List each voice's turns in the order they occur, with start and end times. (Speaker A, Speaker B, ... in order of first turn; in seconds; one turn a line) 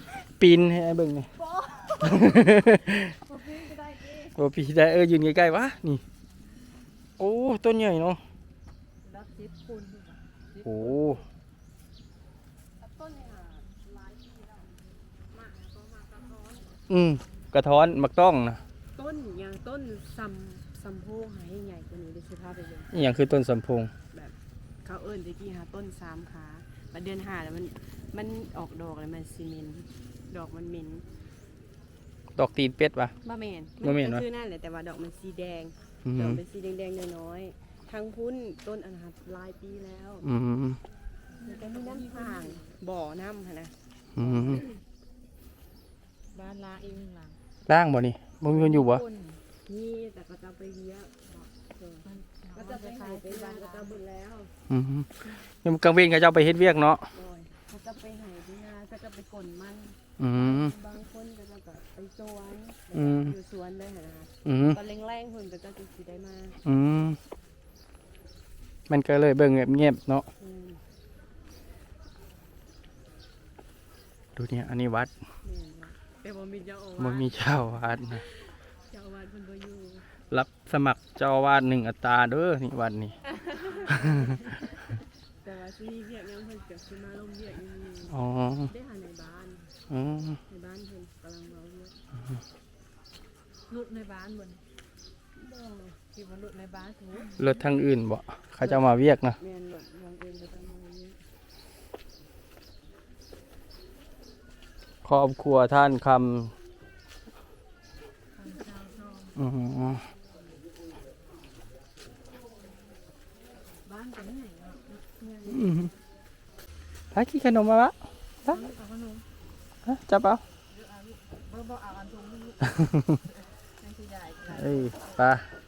Speaker A: 0.2-1.3
Speaker B: 1.4-2.2
Speaker A: 2.0-3.1
Speaker B: 3.4-4.3
Speaker A: 4.3-6.0
Speaker A: 7.2-8.2
Speaker C: 9.0-11.2
Speaker A: 10.6-11.2
Speaker B: 12.8-14.9
Speaker C: 15.3-16.5
Speaker B: 15.7-16.6
Speaker A: 16.9-18.6
Speaker B: 18.9-22.9
Speaker A: 22.9-23.9
Speaker B: 24.1-31.0
Speaker A: 32.4-33.1
Speaker B: 33.2-40.2
Speaker A: 33.8-34.2
Speaker A: 36.0-36.4
Speaker A: 40.2-40.8
Speaker C: 41.4-42.8
Speaker B: 41.4-44.6
Speaker A: 44.1-44.6
Speaker C: 46.3-47.4
Speaker A: 47.7-49.0
Speaker C: 48.5-49.4
Speaker B: 49.7-54.5
Speaker C: 52.0-53.9
Speaker A: 54.7-57.1
Speaker B: 57.1-66.6
Speaker A: 60.2-60.7
Speaker A: 62.9-63.3
Speaker A: 64.4-64.8
Speaker A: 66.6-67.2
Speaker A: 68.9-70.3
Speaker B: 70.4-70.8
Speaker A: 74.3-75.1
Speaker B: 75.4-78.2
Speaker A: 77.0-78.2
Speaker B: 78.9-80.1
Speaker A: 80.3-83.2
Speaker B: 83.3-84.4
Speaker C: 84.1-84.3
Speaker B: 85.4-89.7
Speaker A: 88.1-88.7
Speaker A: 89.9-90.4
Speaker B: 90.5-92.0
Speaker C: 93.7-94.6
Speaker B: 95.3-96.0
Speaker C: 96.1-97.4
Speaker A: 97.4-99.4
Speaker B: 98.6-101.2
Speaker A: 105.0-106.5
Speaker C: 108.3-109.4
Speaker A: 109.3-110.0
Speaker C: 113.8-115.1
Speaker B: 115.2-115.9
Speaker A: 115.5-115.9
Speaker A: 117.1-118.6
Speaker C: 118.4-119.2
Speaker A: 119.8-120.4
Speaker C: 120.7-125.2
Speaker A: 124.5-125.5